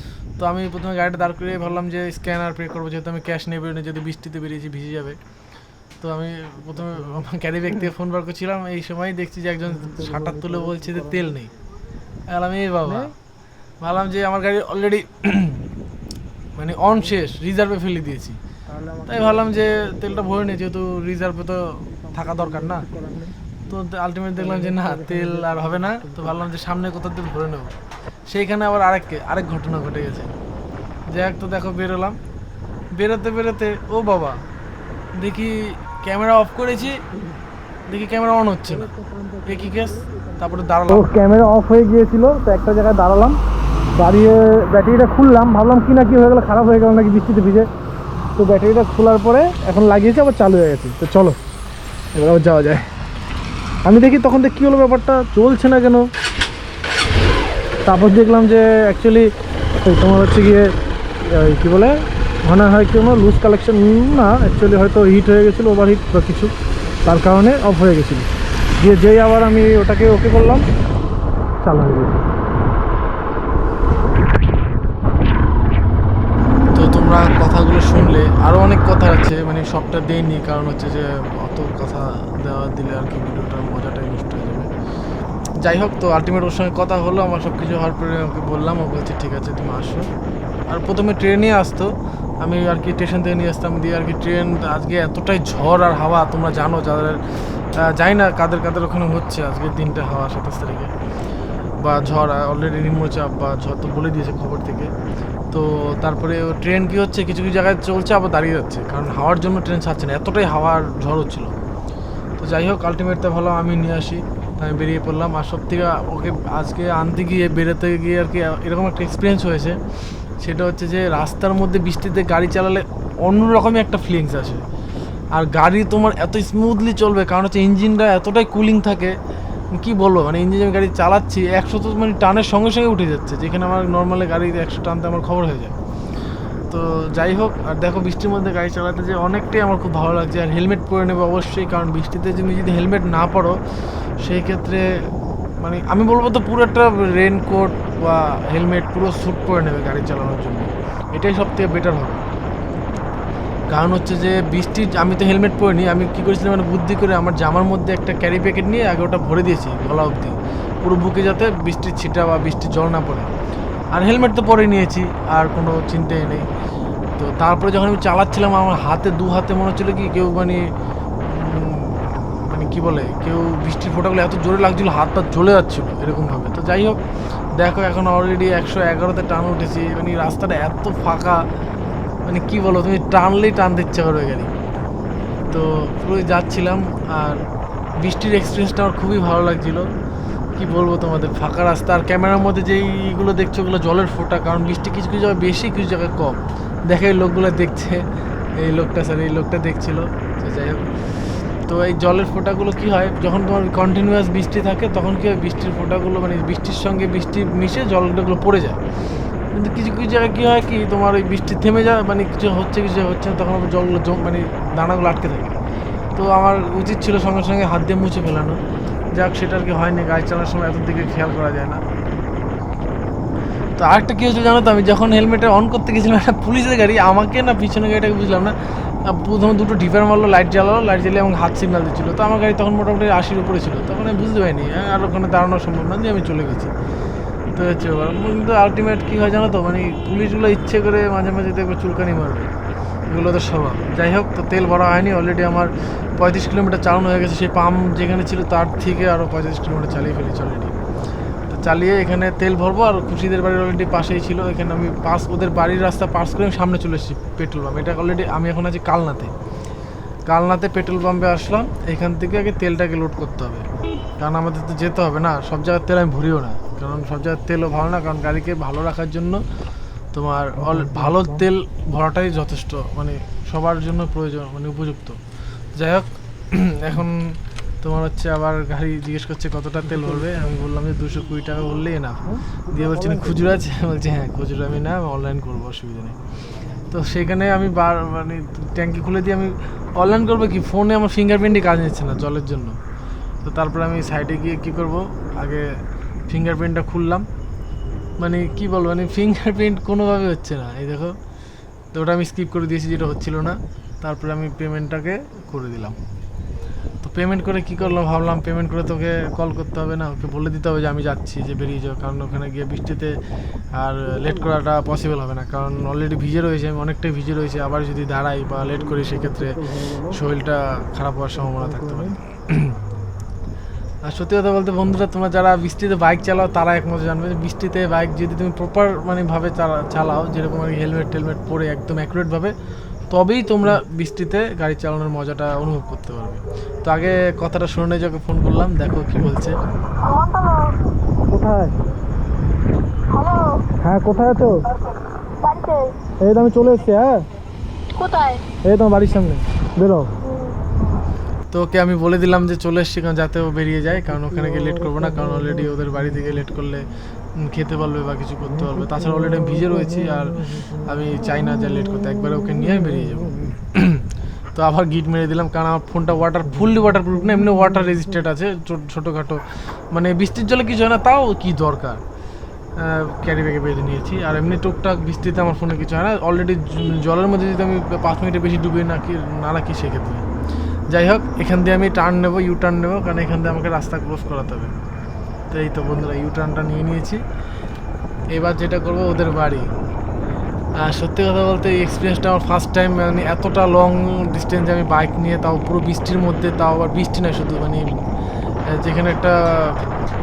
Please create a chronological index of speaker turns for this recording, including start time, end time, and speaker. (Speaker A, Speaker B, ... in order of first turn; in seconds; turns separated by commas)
Speaker A: 0.4-5.2, Speaker A: 6.0-11.5, Speaker B: 6.7-7.2, Speaker B: 9.6-11.3, Speaker A: 12.3-13.1, Speaker B: 12.8-13.1, Speaker A: 13.8-15.6, Speaker A: 16.5-18.4, Speaker B: 16.8-17.1, Speaker B: 18.7-20.6, Speaker A: 19.1-22.9, Speaker B: 22.1-23.3, Speaker A: 23.7-27.7, Speaker B: 24.3-26.4, Speaker A: 28.3-30.3, Speaker A: 31.1-32.2, Speaker A: 32.9-34.4, Speaker A: 35.2-37.0, Speaker A: 37.9-38.9, Speaker B: 38.7-39.8, Speaker A: 39.4-41.0, Speaker B: 40.9-43.4, Speaker B: 44.0-47.7, Speaker B: 48.4-51.4, Speaker B: 52.1-52.8, Speaker B: 53.8-56.1, Speaker B: 57.9-59.3, Speaker B: 59.8-60.7, Speaker B: 61.2-66.5, Speaker B: 67.0-70.7, Speaker B: 71.6-72.3, Speaker A: 76.7-84.7, Speaker A: 85.6-90.1, Speaker A: 90.7-97.2, Speaker A: 97.8-100.9, Speaker A: 101.8-104.9, Speaker A: 105.5-111.5, Speaker A: 112.4-119.8, Speaker A: 120.4-124.6, Speaker A: 125.3-129.1, Speaker A: 129.7-135.7, Speaker A: 136.7-143.6, Speaker A: 144.2-144.8, Speaker A: 145.6-152.2, Speaker A: 153.7-163.3, Speaker A: 163.9-166.5, Speaker A: 167.2-170.6, Speaker A: 171.3-177.0, Speaker A: 177.6-181.4, Speaker A: 182.2-184.5, Speaker A: 185.5-187.4, Speaker A: 188.0-189.9, Speaker A: 190.6-198.0, Speaker A: 198.6-200.9, Speaker A: 201.7-208.8, Speaker A: 209.5-215.6, Speaker A: 216.2-218.6, Speaker A: 219.1-221.8, Speaker A: 223.8-236.7, Speaker A: 237.5-242.5, Speaker A: 243.1-250.7, Speaker A: 251.5-259.3, Speaker A: 260.3-263.6, Speaker A: 264.2-269.4, Speaker A: 270.1-275.2, Speaker B: 270.6-271.4, Speaker A: 275.7-277.2, Speaker A: 277.8-286.2, Speaker B: 279.9-280.3, Speaker B: 282.2-283.6, Speaker A: 286.9-292.8, Speaker A: 293.4-295.7, Speaker A: 296.3-297.3, Speaker A: 298.2-301.1, Speaker A: 301.9-306.0, Speaker A: 307.0-313.1, Speaker A: 313.8-322.8, Speaker B: 318.7-320.2, Speaker B: 321.4-322.2, Speaker A: 324.1-332.5, Speaker A: 333.1-339.6, Speaker C: 340.1-340.7, Speaker B: 341.3-341.7, Speaker C: 343.1-343.6, Speaker B: 343.8-344.6, Speaker C: 345.4-345.9, Speaker B: 346.2-347.2, Speaker C: 347.9-348.4, Speaker B: 348.6-350.1, Speaker C: 350.3-350.6, Speaker A: 351.5-364.0, Speaker B: 353.9-356.3, Speaker B: 358.4-363.5, Speaker A: 364.5-372.0, Speaker B: 366.4-368.0, Speaker A: 372.8-380.2, Speaker A: 380.9-384.7, Speaker A: 385.5-387.2, Speaker A: 388.3-389.7, Speaker A: 390.8-397.9, Speaker A: 398.7-399.8